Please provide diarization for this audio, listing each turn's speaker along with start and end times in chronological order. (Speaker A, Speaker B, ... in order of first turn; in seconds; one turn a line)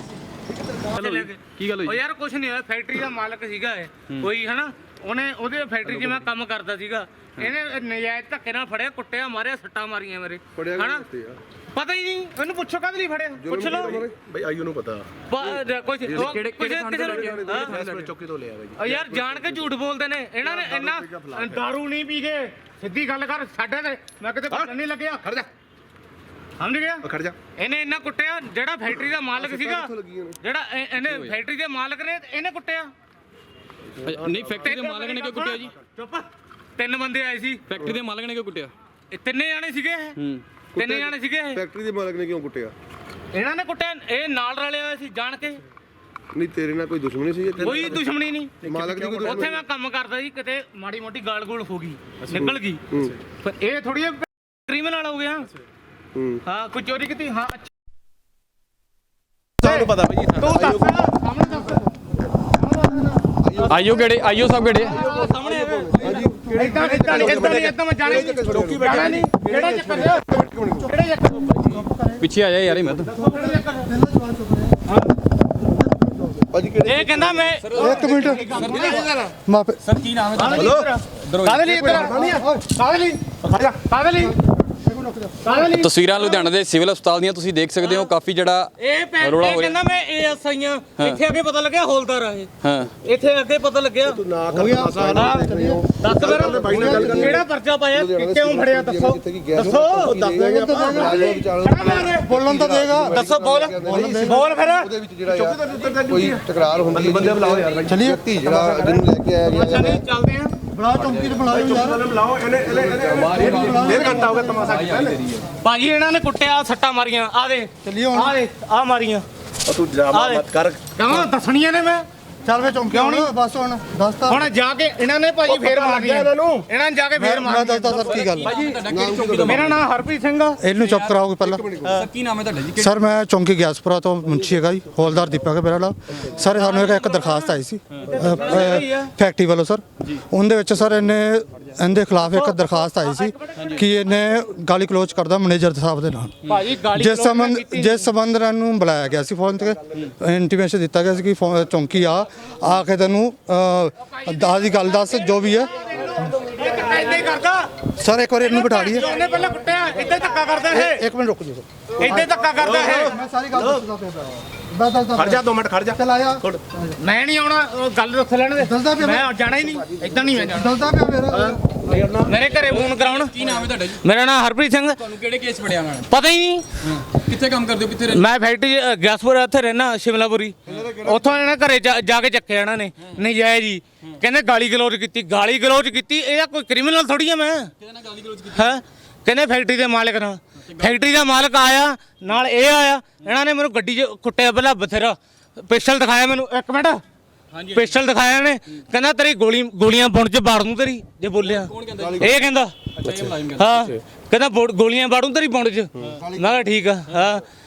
Speaker A: 0.9-11.1
Speaker B: 0.9-2.0
Speaker C: 10.6-11.4
Speaker A: 11.7-14.0
Speaker C: 13.4-14.3
Speaker D: 13.9-15.1
Speaker A: 15.3-17.7
Speaker C: 16.0-16.4
Speaker B: 16.1-18.1
Speaker D: 17.3-18.9
Speaker C: 17.7-18.0
Speaker A: 18.8-25.5
Speaker C: 18.9-19.7
Speaker C: 20.8-21.4
Speaker A: 26.6-32.9
Speaker D: 27.1-27.4
Speaker C: 29.4-30.4
Speaker B: 31.0-31.4
Speaker B: 34.0-35.7
Speaker A: 34.5-37.6
Speaker B: 37.7-38.7
Speaker A: 39.1-40.2
Speaker B: 40.2-40.4
Speaker A: 40.8-41.6
Speaker C: 40.8-42.7
Speaker A: 43.3-45.6
Speaker C: 46.3-48.0
Speaker A: 47.6-48.5
Speaker C: 48.6-49.6
Speaker D: 48.7-49.2
Speaker A: 49.2-52.8
Speaker C: 52.3-53.1
Speaker A: 53.4-55.5
Speaker C: 56.1-56.4
Speaker A: 56.5-57.7
Speaker D: 59.6-61.0
Speaker A: 59.6-61.9
Speaker A: 62.5-63.9
Speaker C: 63.4-64.2
Speaker B: 63.7-65.0
Speaker A: 64.7-71.8
Speaker C: 64.7-69.2
Speaker E: 66.0-67.1
Speaker D: 67.3-70.2
Speaker C: 69.8-70.9
Speaker E: 71.6-72.3
Speaker B: 72.2-73.1
Speaker A: 73.1-73.9
Speaker E: 73.2-74.8
Speaker C: 76.5-77.5
Speaker A: 76.8-79.3
Speaker B: 77.6-79.2
Speaker E: 77.8-78.6
Speaker E: 79.5-79.8
Speaker B: 79.8-82.1
Speaker A: 80.3-83.2
Speaker D: 80.6-80.9
Speaker D: 81.9-82.4
Speaker E: 82.2-82.7
Speaker D: 83.4-83.8
Speaker A: 83.9-84.4
Speaker E: 84.8-85.4
Speaker A: 85.4-86.2
Speaker B: 85.7-89.8
Speaker A: 88.8-92.5
Speaker B: 92.6-92.9
Speaker A: 93.0-94.2
Speaker D: 94.1-95.1
Speaker E: 94.5-95.8
Speaker C: 94.6-110.0
Speaker A: 95.1-100.2
Speaker D: 96.1-97.2
Speaker E: 96.7-97.4
Speaker D: 100.0-100.9
Speaker E: 100.2-101.2
Speaker A: 100.8-102.3
Speaker E: 102.2-104.5
Speaker A: 103.1-104.9
Speaker D: 105.3-107.9
Speaker E: 107.9-108.6
Speaker A: 109.5-110.6
Speaker E: 110.7-112.0
Speaker B: 111.0-111.5
Speaker D: 111.5-115.2
Speaker C: 112.7-114.5
Speaker B: 113.1-115.4
Speaker E: 113.3-114.7
Speaker A: 115.6-119.3
Speaker E: 117.8-118.4
Speaker D: 119.7-120.9
Speaker A: 120.1-122.0
Speaker E: 122.5-124.5
Speaker A: 122.9-123.3
Speaker A: 124.3-128.8
Speaker D: 125.5-126.7
Speaker E: 127.2-128.5
Speaker B: 127.9-129.7
Speaker C: 128.7-129.8
Speaker A: 129.4-130.6
Speaker E: 130.6-131.8
Speaker B: 130.7-131.2
Speaker C: 131.4-132.1
Speaker B: 131.8-133.1
Speaker E: 132.8-146.4
Speaker A: 136.5-139.1
Speaker B: 137.9-138.3
Speaker A: 142.2-143.9
Speaker B: 143.6-143.8
Speaker A: 146.4-148.1
Speaker E: 146.9-156.3
Speaker A: 155.7-157.7
Speaker E: 157.9-159.1
Speaker A: 158.4-161.1
Speaker E: 160.7-165.4
Speaker A: 162.0-163.2
Speaker D: 162.6-163.9
Speaker D: 165.2-166.6
Speaker E: 166.0-166.9
Speaker A: 167.0-170.8
Speaker E: 168.6-169.3
Speaker E: 170.4-171.6
Speaker D: 171.3-172.3
Speaker A: 172.2-173.4
Speaker B: 172.6-174.0
Speaker A: 173.9-175.1
Speaker B: 175.0-176.1
Speaker A: 176.1-176.7
Speaker B: 176.9-178.2
Speaker A: 178.1-187.7
Speaker B: 187.8-188.6
Speaker A: 188.4-197.0
Speaker B: 197.5-197.9
Speaker A: 197.7-202.7
Speaker B: 201.4-202.4
Speaker C: 202.0-202.3
Speaker B: 203.0-203.9
Speaker A: 203.6-207.4